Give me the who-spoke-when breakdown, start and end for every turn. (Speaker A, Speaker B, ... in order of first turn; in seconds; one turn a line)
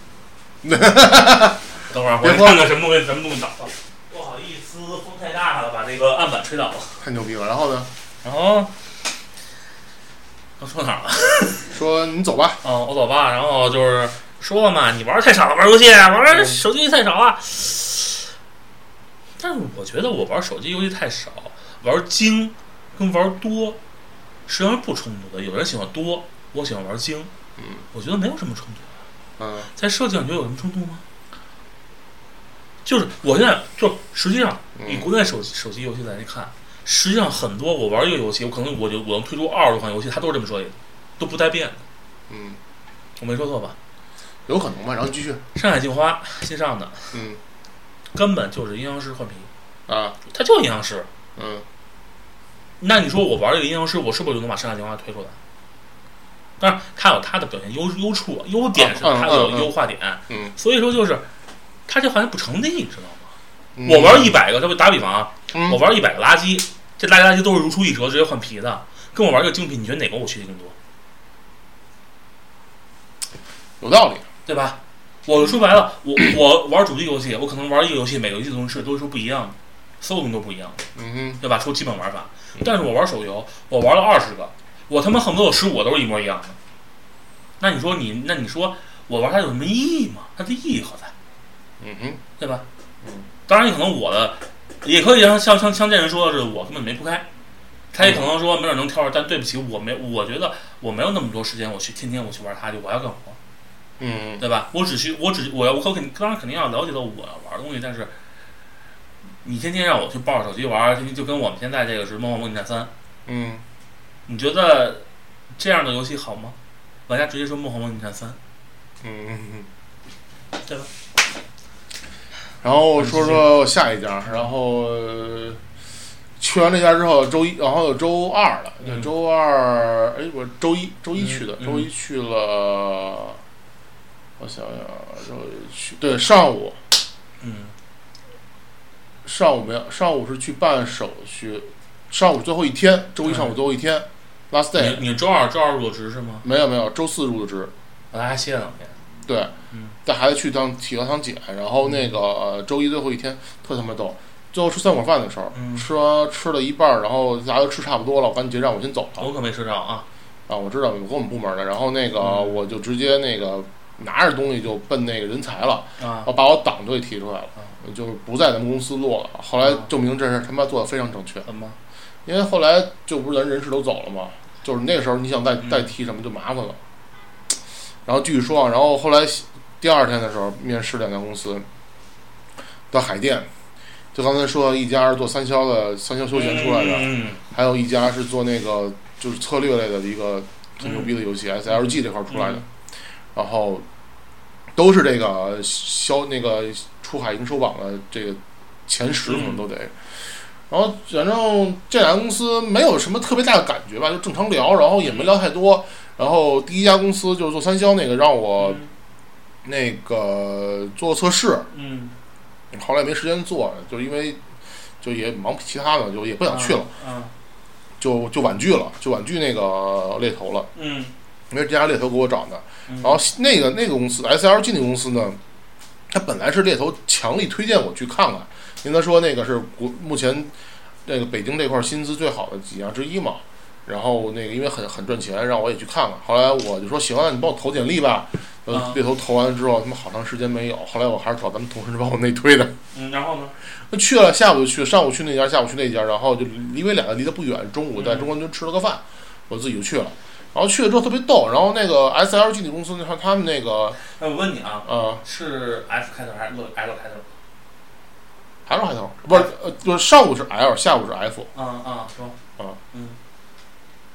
Speaker A: 0.6-1.6
Speaker B: 1.8-7.0
Speaker A: 2.2-2.6
Speaker A: 7.0-7.9
Speaker B: 8.2-8.7
Speaker B: 10.6-11.7
Speaker A: 11.7-12.6
Speaker B: 12.6-18.3
Speaker A: 16.3-16.6
Speaker B: 19.4-23.8
Speaker B: 24.5-27.3
Speaker A: 27.6-27.8
Speaker B: 27.9-28.9
Speaker A: 29.4-29.7
Speaker B: 29.7-31.0
Speaker B: 32.8-41.8
Speaker A: 34.8-35.1
Speaker A: 42.3-42.6
Speaker B: 43.2-43.8
Speaker A: 44.5-45.4
Speaker B: 45.5-47.2
Speaker A: 47.1-47.4
Speaker B: 48.1-49.5
Speaker A: 49.9-50.1
Speaker B: 50.2-51.1
Speaker A: 51.4-51.6
Speaker B: 52.8-55.4
Speaker B: 56.6-61.2
Speaker A: 58.7-59.7
Speaker A: 60.3-60.5
Speaker B: 61.9-63.3
Speaker A: 63.8-64.4
Speaker B: 63.8-70.7
Speaker A: 65.5-65.8
Speaker A: 73.8-74.2
Speaker B: 74.5-80.8
Speaker A: 81.0-81.4
Speaker B: 81.4-86.6
Speaker B: 87.6-91.1
Speaker A: 91.8-92.2
Speaker B: 92.4-92.6
Speaker B: 93.5-97.2
Speaker B: 97.9-103.4
Speaker A: 98.0-98.3
Speaker A: 104.0-104.4
Speaker B: 104.4-108.1
Speaker B: 109.4-112.9
Speaker A: 113.2-113.6
Speaker B: 114.3-116.5
Speaker B: 117.1-118.4
Speaker A: 119.0-119.7
Speaker B: 120.6-120.9
Speaker A: 122.6-125.6
Speaker B: 123.0-123.5
Speaker A: 126.4-133.4
Speaker B: 128.8-129.1
Speaker B: 131.2-131.9
Speaker A: 134.4-136.8
Speaker B: 137.4-137.7
Speaker A: 139.2-145.0
Speaker B: 143.2-143.5
Speaker B: 144.7-146.4
Speaker A: 146.4-147.7
Speaker B: 148.1-148.9
Speaker A: 149.2-149.5
Speaker A: 150.0-159.3
Speaker B: 151.8-152.1
Speaker B: 155.5-155.9
Speaker B: 159.2-160.1
Speaker A: 160.5-171.5
Speaker B: 162.2-162.6
Speaker B: 166.0-166.3
Speaker B: 169.6-169.9
Speaker B: 171.4-171.8
Speaker A: 172.2-176.8
Speaker B: 175.6-175.9
Speaker A: 178.1-181.7
Speaker A: 182.9-183.5
Speaker A: 184.1-192.6
Speaker B: 186.3-187.4
Speaker B: 190.8-192.6
Speaker A: 193.3-193.8
Speaker A: 194.7-208.8
Speaker B: 199.2-199.6
Speaker B: 205.0-205.3
Speaker B: 208.6-208.9
Speaker A: 209.6-211.7
Speaker B: 211.7-212.1
Speaker A: 212.7-214.4
Speaker A: 215.0-216.9
Speaker B: 216.5-217.3
Speaker A: 218.0-220.7
Speaker B: 220.7-221.1
Speaker A: 221.5-225.4
Speaker B: 222.9-223.2
Speaker A: 226.1-230.5
Speaker A: 231.0-242.7
Speaker B: 238.7-239.0
Speaker B: 242.9-243.5
Speaker A: 243.7-254.0
Speaker B: 248.0-248.3
Speaker B: 254.0-257.3
Speaker A: 254.8-255.2
Speaker A: 258.6-261.5
Speaker B: 261.5-262.4
Speaker B: 262.9-263.2